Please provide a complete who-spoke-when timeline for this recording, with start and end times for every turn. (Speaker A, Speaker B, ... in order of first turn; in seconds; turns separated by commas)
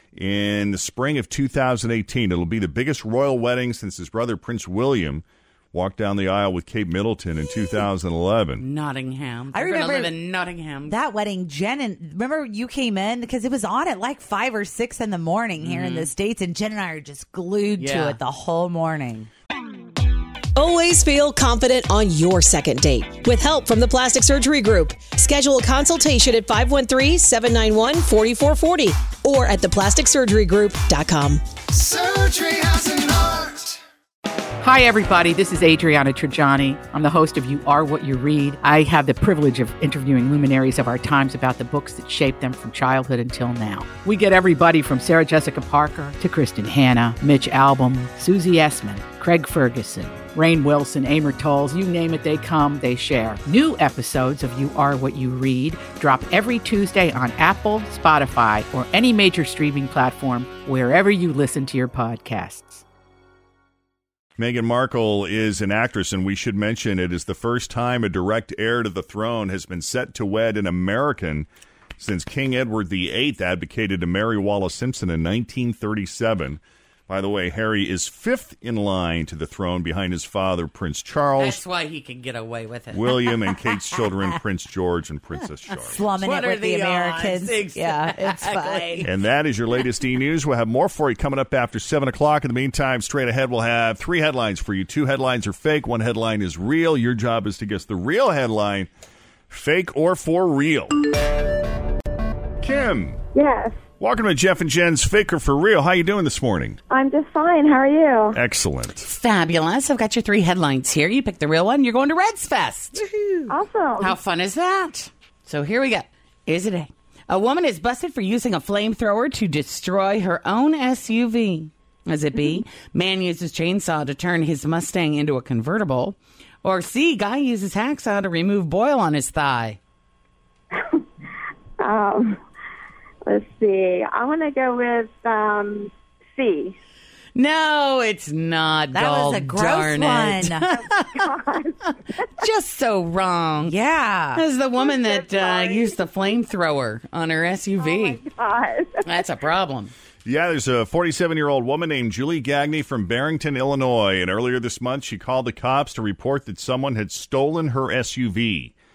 Speaker A: 0.1-8.6, Speaker B: 8.6-11.0, Speaker C: 9.5-10.1, Speaker C: 10.9-19.3, Speaker B: 15.6-16.1, Speaker B: 17.8-18.2, Speaker D: 20.6-31.4, Speaker E: 34.6-62.8, Speaker A: 64.4-71.5, Speaker A: 72.0-81.6, Speaker B: 81.4-83.1, Speaker A: 82.9-86.0, Speaker C: 85.9-89.1, Speaker B: 86.2-89.1, Speaker A: 89.0-98.9, Speaker A: 99.5-101.0, Speaker A: 102.6-103.2, Speaker F: 103.3-103.8, Speaker A: 104.0-106.8, Speaker F: 106.9-108.4, Speaker A: 108.3-109.1, Speaker B: 109.0-113.0, Speaker C: 113.0-113.5, Speaker F: 113.5-114.2, Speaker B: 114.0-129.8, Speaker F: 130.7-131.1, Speaker F: 131.8-132.4, Speaker F: 133.2-136.8, Speaker B: 137.3-141.3, Speaker C: 138.9-140.7, Speaker F: 140.7-142.4, Speaker B: 142.4-143.8, Speaker C: 143.7-144.4, Speaker B: 144.3-148.2, Speaker F: 144.8-146.4, Speaker F: 147.8-149.2, Speaker B: 149.0-149.9, Speaker A: 150.2-158.7